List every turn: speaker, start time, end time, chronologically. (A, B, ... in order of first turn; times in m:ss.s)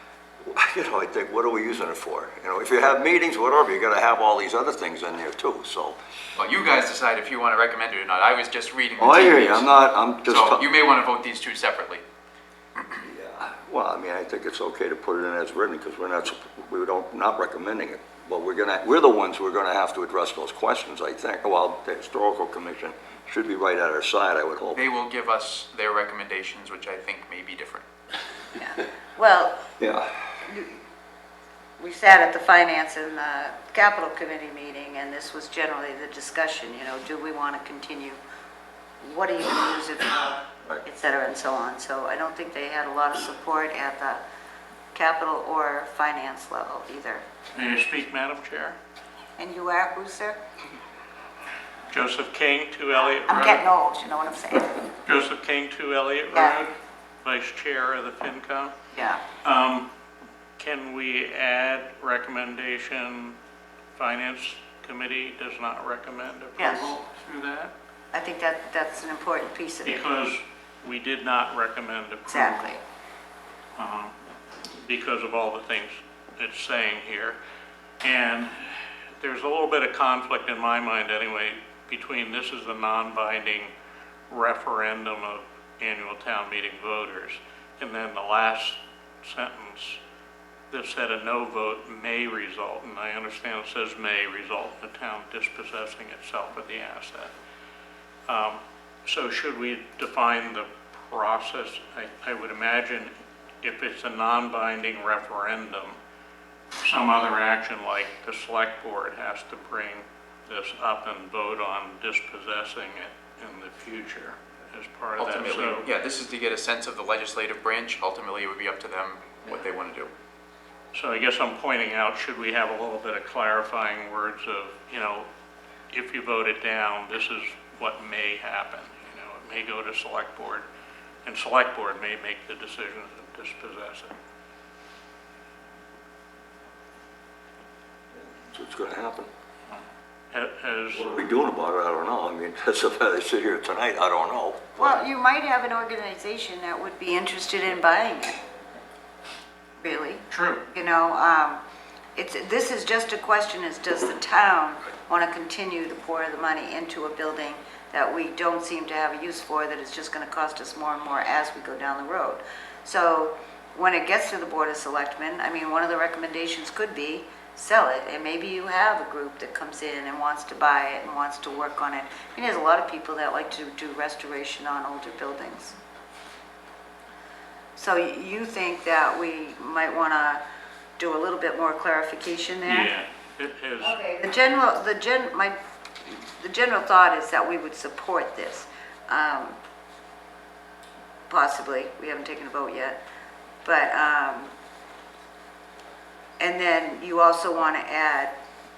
0:00.5-0:06.0 A
0:06.4-0:12.0 B
0:09.0-0:10.6 A
0:13.0-0:24.8 A
0:24.7-0:27.8 B
0:28.6-0:29.7 C
0:29.8-0:30.1 A
0:30.4-0:30.8 C
0:31.8-0:38.2 C
0:39.0-0:44.2 C
0:44.9-0:47.2 C
0:47.5-0:48.8 D
0:49.4-0:50.4 C
0:51.9-0:53.6 D
0:53.2-0:54.9 C
0:55.0-0:58.7 D
0:56.3-0:56.6 C
0:58.9-0:59.2 C
0:59.4-0:59.9 D
1:00.6-1:03.3 D
1:04.0-1:07.7 D
1:06.6-1:06.9 C
1:08.1-1:10.0 C
1:09.8-1:12.6 D
1:12.3-1:12.8 C
1:13.8-1:14.1 D
1:14.8-1:17.4 D
1:18.0-1:23.7 D
1:24.3-1:30.0 D
1:30.7-1:37.3 D
1:38.3-1:43.1 D
1:43.6-1:46.0 D
1:46.8-1:55.9 D
1:55.2-2:00.1 B
2:00.9-2:05.3 D
2:05.9-2:10.6 D
2:11.2-2:14.1 D
2:18.3-2:19.3 A
2:20.3-2:21.0 D
2:20.9-2:25.0 A
2:24.8-2:28.4 C
2:29.8-2:31.6 C
2:30.3-2:30.6 D
2:32.2-2:55.7 C
2:57.8-3:00.4 C
3:01.0-3:02.9 C
3:02.7-3:04.0 D
3:03.8-3:09.6 C
3:11.3-3:13.0 C
3:13.6-3:14.5 C
3:16.4-3:18.3 C